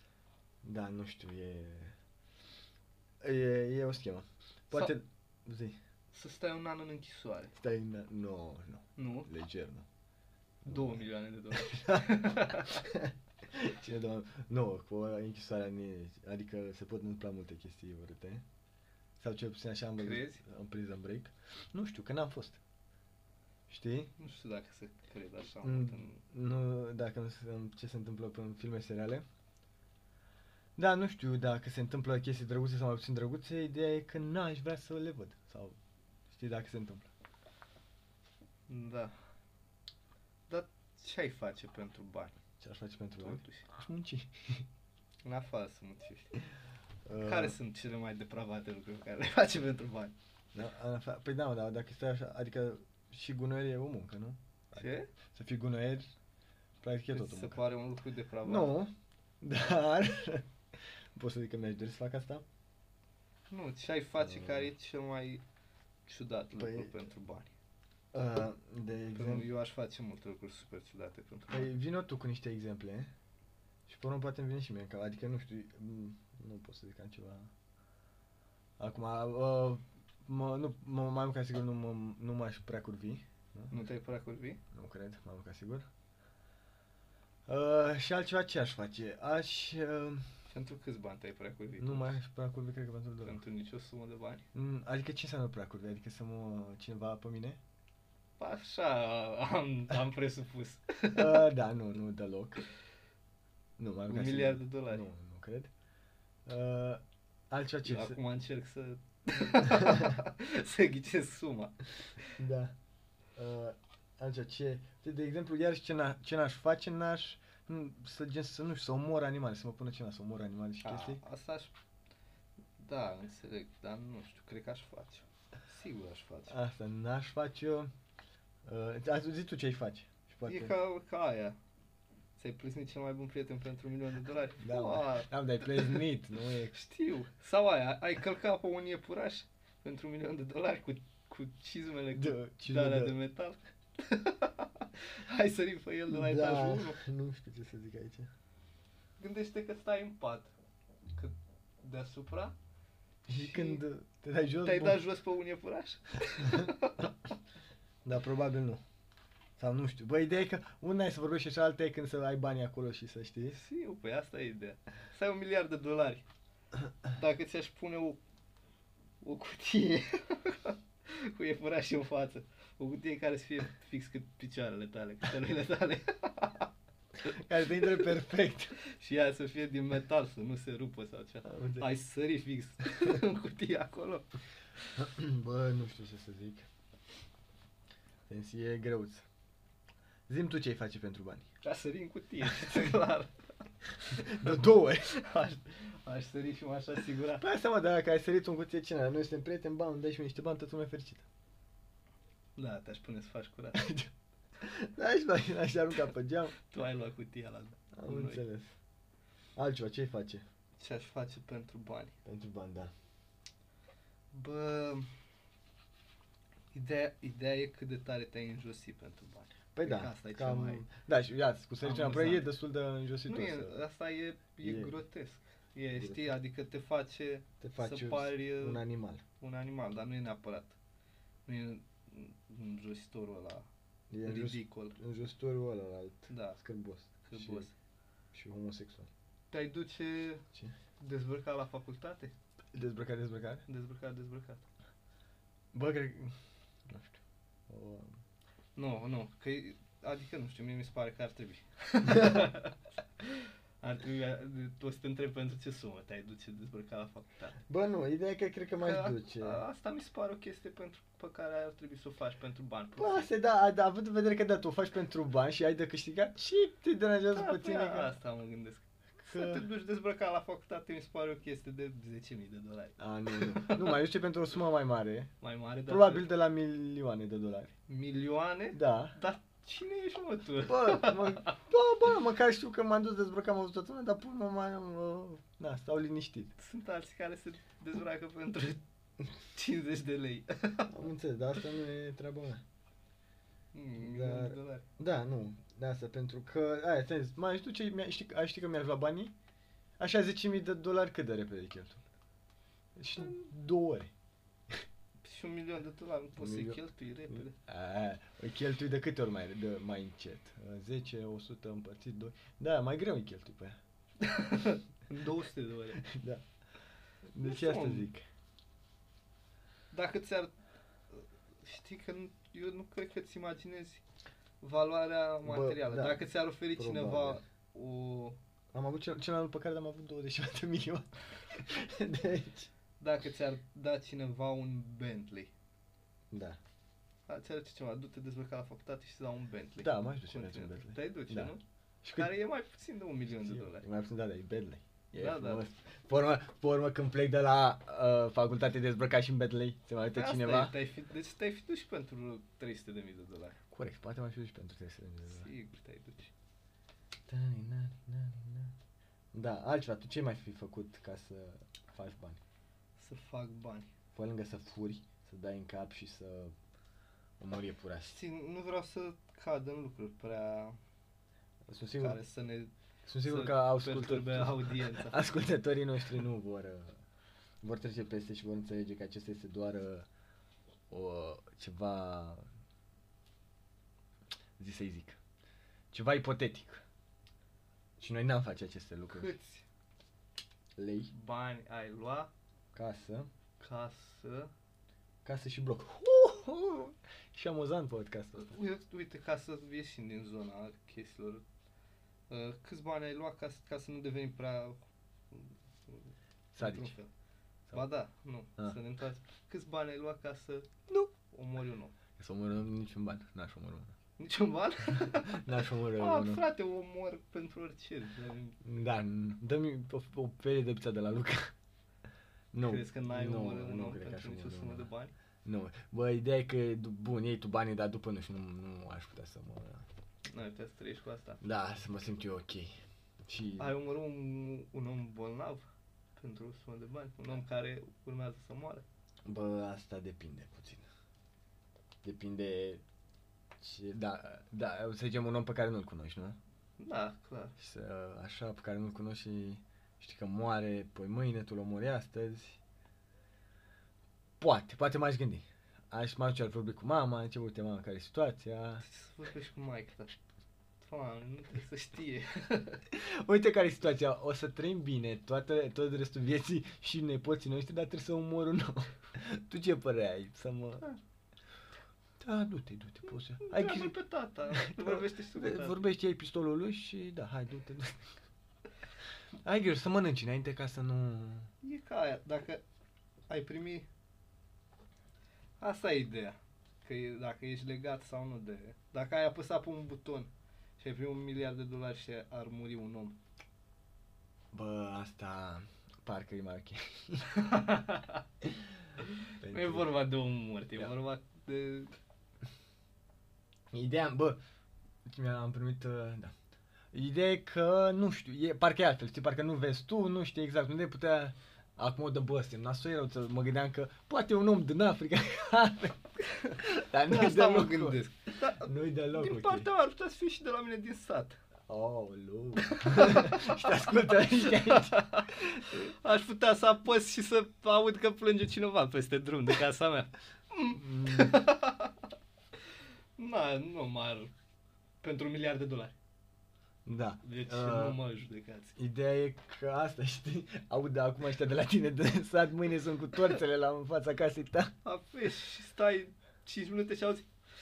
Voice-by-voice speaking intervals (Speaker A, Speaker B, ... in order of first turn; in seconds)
Speaker A: 0.6-1.9, 3.2-5.8, 7.5-9.9, 10.7-10.9, 11.6-12.1, 12.8-18.4, 19.2-22.6, 23.7-24.1, 25.6-29.3, 30.8-35.8, 36.3-37.1, 42.6-44.7, 47.1-47.6, 50.5-56.1, 56.8-57.6, 58.4-60.5, 61.1-62.4, 64.2-64.7, 66.5-66.9, 68.1-69.5, 71.5-73.1, 73.9-77.5, 78.8-83.8, 84.7-85.9, 87.5-90.2, 91.8-93.4, 94.5-97.6, 101.1-102.7, 103.8-105.7, 106.5-108.2, 109.6-110.2, 112.4-112.8, 113.4-121.2, 126.5-127.9, 128.7-130.7, 134.6-136.8, 142.2-143.2, 146.1-148.3, 153.3-155.0, 156.4-156.7, 158.1-158.8, 159.6-163.6, 177.2-178.7, 181.4-181.9, 185.0-186.7, 188.3-189.2, 190.3-191.5, 194.1-195.1, 197.4-201.2, 203.8-204.1, 204.6-206.5, 207.9-208.8, 209.6-210.4, 212.2-212.9, 219.8-223.8, 224.6-224.9, 225.9-226.3, 227.6-229.2, 234.1-237.7, 238.3-239.1, 242.7-243.7, 245.7-246.4, 246.9-248.1, 252.1-252.5, 257.7-259.6, 263.0-268.1, 269.2-269.7, 273.0-275.3, 275.9-277.7, 278.7-279.2, 280.6-286.5, 290.9-292.6, 294.0-299.3, 300.0-302.0, 303.0-304.1, 306.4-313.8, 316.0-316.4, 317.3-318.2, 325.4-326.2, 326.8-327.4, 328.7-332.7, 336.3-336.6, 339.8-342.3, 343.4-350.8, 353.7-355.5, 357.3-358.7, 359.3-362.4, 364.1-366.5, 367.4-368.2, 371.7-372.2, 373.1-377.0, 377.6-380.1, 380.9-382.4, 384.6-385.2, 385.9-386.8, 388.0-389.3, 390.8-391.1, 392.7-393.3, 395.2-398.6, 406.6-406.9, 412.2-413.9, 415.0-416.4, 418.6-421.5, 422.5-424.9, 425.4-429.9, 431.4-433.8, 439.3-440.9, 442.0-442.8, 443.6-446.4, 447.6-452.6, 454.4-458.8, 462.9-470.9, 472.2-473.9, 474.6-478.1, 479.4-481.5, 494.5-497.5, 499.4-499.9, 503.7-504.4, 505.1-506.3, 506.9-516.1, 516.6-519.7, 521.7-525.9, 530.8-531.5, 536.9-538.0, 538.8-544.7
Speaker B: 6.1-7.5, 9.0-9.3, 10.7-12.9, 20.0-20.4, 24.2-26.2, 38.7-39.1, 40.5-42.4, 43.2-43.7, 45.2-46.4, 47.2-50.1, 54.7-55.1, 57.1-58.7, 63.5-65.4, 66.1-67.5, 69.2-71.7, 83.7-84.6, 90.5-92.1, 93.2-94.5, 98.4-101.5, 104.1-105.1, 107.8-112.3, 120.8-121.7, 122.8-126.6, 130.5-131.6, 132.4-136.0, 136.7-147.0, 149.2-150.5, 151.2-152.6, 153.3-153.8, 154.6-157.2, 163.5-166.2, 167.1-168.2, 169.2-176.7, 178.8-184.3, 191.6-193.3, 194.1-197.4, 202.6-203.9, 206.6-208.4, 210.8-212.1, 214.3-215.1, 216.7-220.8, 221.8-222.5, 223.3-228.8, 229.4-230.8, 231.5-233.7, 234.2-235.0, 236.3-236.6, 237.2-237.7, 239.5-240.4, 241.0-242.3, 243.7-244.6, 248.8-257.6, 258.8-263.3, 267.3-274.0, 275.4-276.3, 277.9-281.6, 286.6-288.8, 289.5-290.9, 293.7-294.9, 305.2-307.6, 314.2-316.0, 317.4-318.1, 319.9-320.5, 321.1-324.0, 324.6-328.4, 333.0-335.5, 337.3-341.6, 342.2-343.9, 345.2-345.6, 350.1-353.6, 355.2-356.3, 363.0-363.9, 368.1-370.8, 372.0-372.7, 373.2-375.2, 389.1-389.6, 391.1-392.3, 393.6-394.5, 398.4-401.4, 402.3-407.1, 407.7-411.9, 414.2-418.6, 422.6-425.1, 430.3-431.4, 433.6-435.6, 436.2-438.9, 446.8-447.6, 458.8-460.2, 460.8-462.8, 473.4-475.8, 481.6-482.6, 483.3-483.9, 485.6-493.2, 497.3-498.2, 499.0-501.9, 516.3-521.4, 522.6-523.6, 524.4-531.9, 533.2-534.3, 535.0-536.0, 537.2-538.8, 544.8-547.3